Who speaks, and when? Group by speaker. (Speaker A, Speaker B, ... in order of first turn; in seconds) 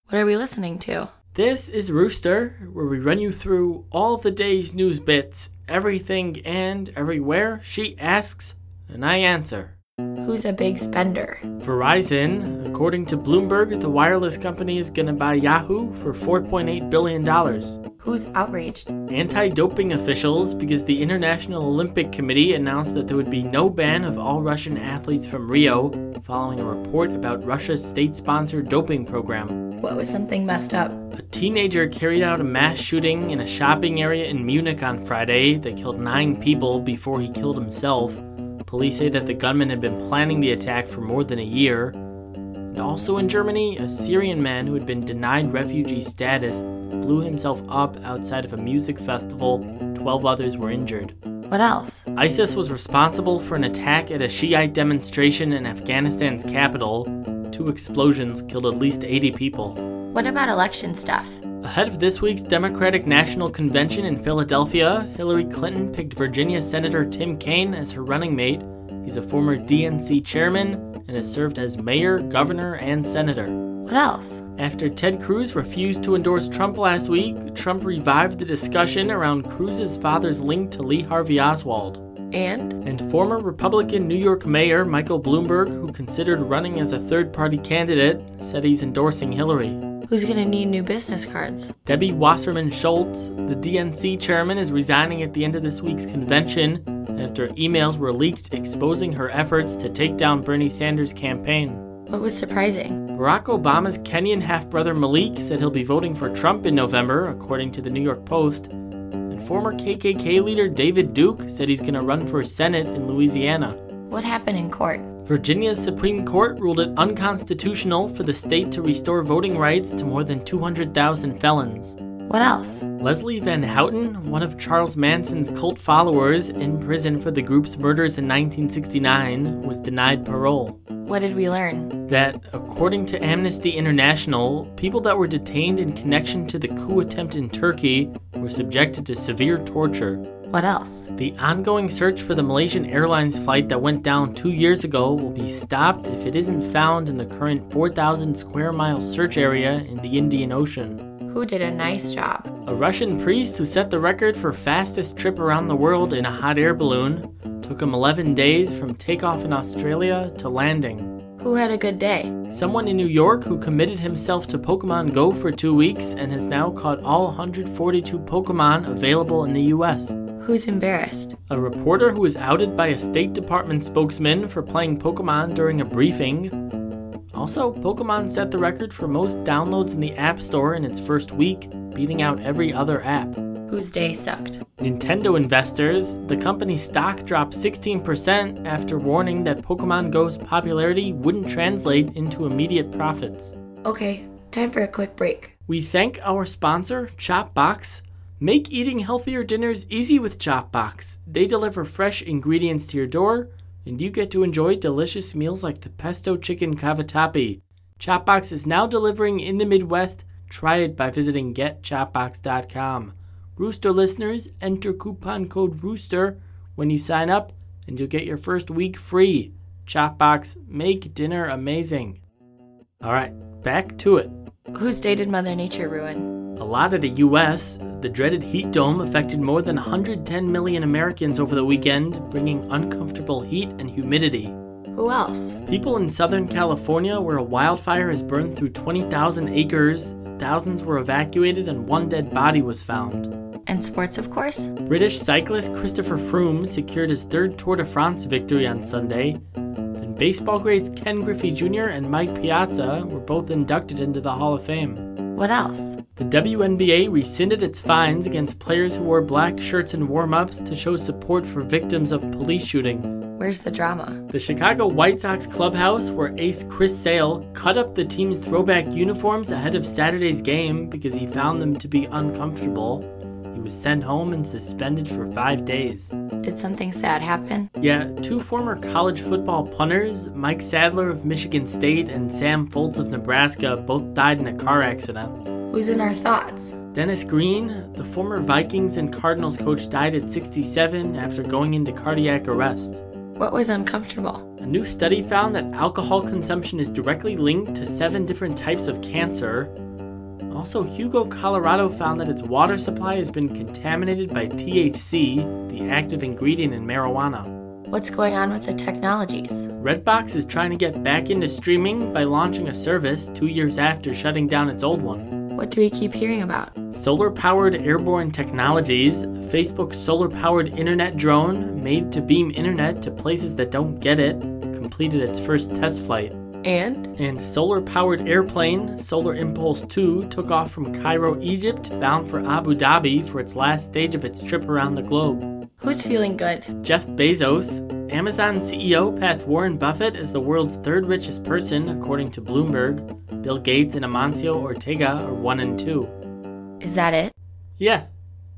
Speaker A: 0.1-1.1, 10.2-11.4, 18.0-18.9, 29.8-31.1, 51.5-52.0, 60.1-61.4, 73.9-74.4, 82.3-82.8, 90.1-91.7, 102.1-103.0, 114.1-115.1, 122.3-122.9, 131.1-132.0, 140.5-141.1, 151.3-152.5, 161.4-162.4, 170.4-171.4, 183.7-184.6, 193.8-195.5, 224.7-226.3, 234.9-235.6, 243.7-244.7, 255.3-256.0, 263.4-264.2, 276.4-277.7, 285.7-286.8, 293.4-294.4, 307.9-309.7, 315.6-316.7, 326.6-327.1, 335.8-336.7, 346.8-347.3
Speaker B: 1.3-9.8, 11.6-17.8, 19.1-29.6, 31.1-42.0, 42.7-51.1, 52.1-59.8, 61.6-73.6, 74.6-82.0, 82.8-89.8, 91.8-101.8, 103.1-108.7, 109.3-113.8, 115.3-122.0, 123.0-130.8, 132.1-140.2, 141.2-151.0, 152.7-161.2, 162.5-170.2, 171.5-176.7, 177.3-183.4, 184.8-193.6, 195.7-222.2, 223.0-224.3, 226.6-234.6, 235.7-243.3, 244.9-249.4, 250.0-255.1, 256.2-263.2, 264.3-276.1, 277.8-285.4, 286.9-293.0, 294.6-299.7, 300.5-307.5, 309.8-315.3, 316.9-326.4, 327.2-335.5, 336.8-346.1, 347.8-348.1